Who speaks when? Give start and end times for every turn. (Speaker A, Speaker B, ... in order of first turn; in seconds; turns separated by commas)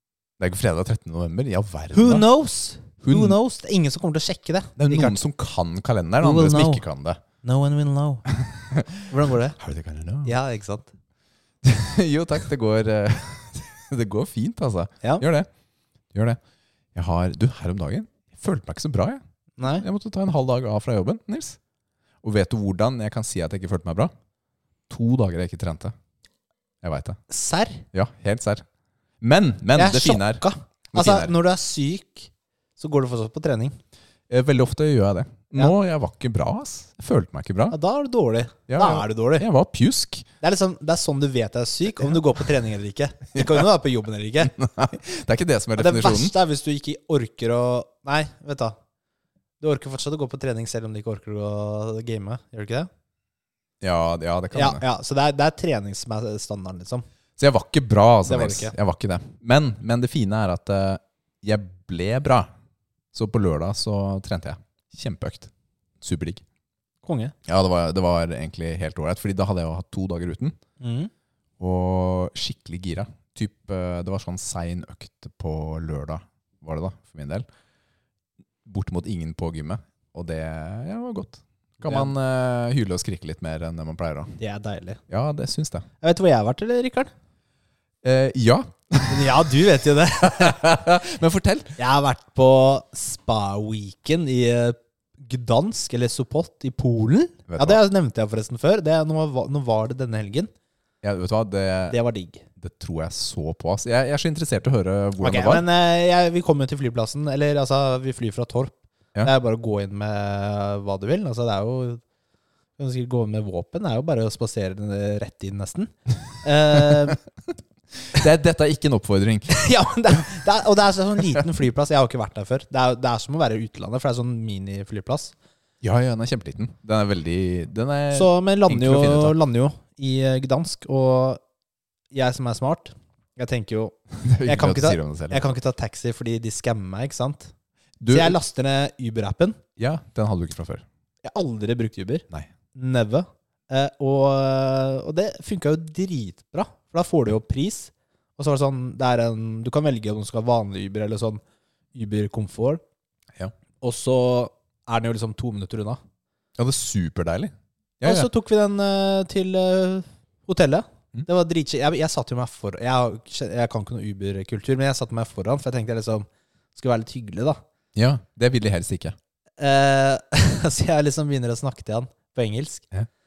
Speaker A: 0.4-2.2, Speaker B: 1.9-5.2, Speaker A: 3.0-3.4, Speaker A: 4.8-7.2, Speaker B: 6.2-6.8, Speaker B: 7.4-8.3, Speaker A: 8.7-10.3, Speaker B: 9.1-9.6, Speaker B: 10.2-10.9, Speaker A: 11.6-15.5, Speaker A: 16.1-16.4, Speaker A: 16.9-19.2, Speaker B: 19.6-19.9, Speaker A: 19.7-21.6, Speaker A: 22.2-24.1, Speaker A: 24.9-25.9, Speaker A: 26.8-27.2, Speaker B: 27.3-27.8, Speaker A: 27.9-28.6, Speaker A: 29.2-31.3, Speaker B: 29.7-33.8, Speaker A: 34.3-37.8, Speaker B: 37.7-39.4, Speaker A: 38.7-40.3, Speaker B: 40.4-44.5, Speaker A: 43.4-43.6, Speaker A: 44.4-46.3, Speaker B: 45.8-48.8, Speaker B: 49.6-52.9, Speaker A: 53.8-54.8, Speaker B: 54.5-57.0, Speaker A: 57.4-62.5, Speaker B: 58.2-58.7, Speaker A: 63.1-66.4, Speaker B: 67.0-67.3, Speaker A: 67.5-70.6, Speaker B: 70.8-71.1, Speaker A: 71.6-77.5, Speaker A: 78.6-84.3, Speaker B: 81.8-82.1, Speaker B: 84.4-85.0, Speaker A: 85.1-85.9, Speaker B: 86.0-87.1, Speaker A: 88.0-89.5, Speaker B: 89.1-90.7, Speaker A: 90.2-91.8, Speaker B: 91.8-100.5, Speaker A: 97.5-97.8, Speaker A: 101.0-102.0, Speaker B: 101.9-102.4, Speaker A: 102.6-105.6, Speaker B: 105.2-112.0, Speaker B: 112.8-117.2, Speaker A: 118.1-119.6, Speaker B: 119.5-125.3, Speaker A: 125.8-129.3, Speaker B: 128.1-131.4, Speaker B: 132.1-137.5, Speaker A: 134.1-135.4, Speaker A: 138.0-138.3, Speaker B: 138.1-139.6, Speaker A: 139.8-140.8, Speaker B: 141.2-151.4, Speaker B: 151.9-152.8, Speaker B: 153.8-156.0, Speaker A: 156.6-158.3, Speaker B: 158.0-167.6, Speaker A: 167.9-169.2, Speaker B: 169.6-172.8